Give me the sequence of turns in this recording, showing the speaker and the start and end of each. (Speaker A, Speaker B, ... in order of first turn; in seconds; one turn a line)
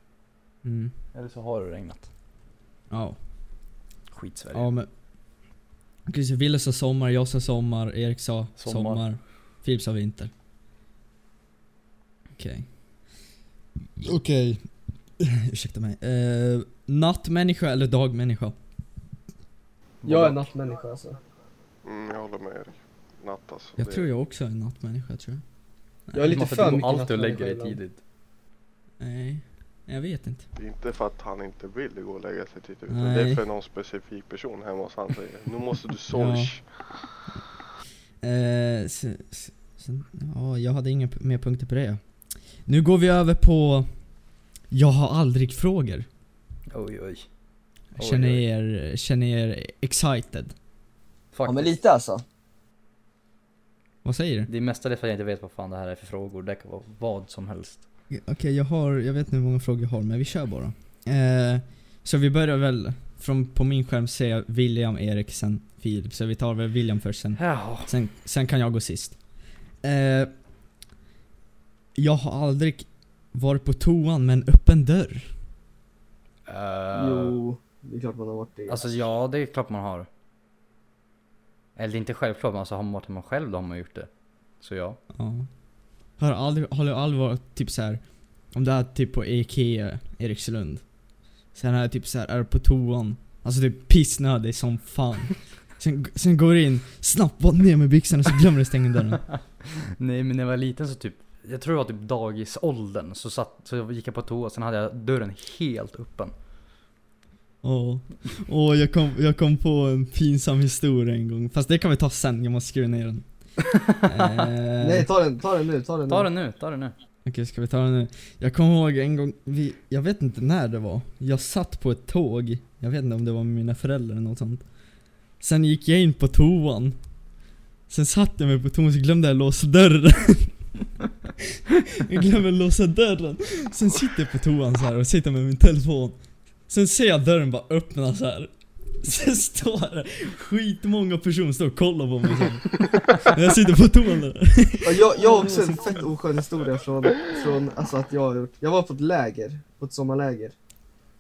Speaker A: 0.6-0.9
Speaker B: 1.1-2.1
Speaker A: 2.9-3.2
Speaker B: 4.1-4.7
Speaker A: 4.5-4.9
Speaker A: 6.1-10.3
Speaker B: 8.6-9.0
Speaker A: 12.3-12.7
Speaker A: 14.0-18.5
Speaker B: 20.0-20.4
Speaker C: 20.0-21.2
Speaker D: 21.8-24.1
Speaker A: 23.8-25.4
Speaker A: 26.1-26.4
Speaker C: 26.1-27.8
Speaker B: 26.2-28.0
Speaker A: 29.0-30.5
Speaker D: 30.6-36.6
Speaker A: 32.9-33.4
Speaker A: 36.1-36.5
Speaker A: 38.2-42.0
Speaker A: 42.6-43.9
Speaker A: 44.7-46.1
Speaker B: 46.7-47.3
Speaker A: 47.9-50.5
Speaker B: 48.0-48.4
Speaker B: 51.3-51.7
Speaker C: 51.5-52.2
Speaker A: 54.0-54.5
Speaker B: 54.5-57.8
Speaker A: 58.1-69.2
Speaker B: 67.3-67.9
Speaker A: 69.8-70.3
Speaker A: 72.0-75.3
Speaker B: 76.5-77.3
Speaker C: 76.9-79.0
Speaker B: 78.7-80.1
Speaker B: 81.8-84.1
Speaker B: 84.6-85.0
Speaker A: 85.1-85.5
Speaker A: 86.2-88.0
Speaker A: 88.5-90.8
Speaker A: 91.5-99.2
Speaker B: 99.6-106.3
Speaker A: 107.6-113.2
Speaker B: 113.9-114.5
Speaker A: 114.0-115.1
Speaker C: 114.8-116.3
Speaker B: 116.1-116.9
Speaker A: 117.2-124.6
Speaker A: 125.4-127.0
Speaker A: 127.9-130.6
Speaker A: 132.0-136.2
Speaker A: 136.7-146.0
Speaker C: 144.8-150.5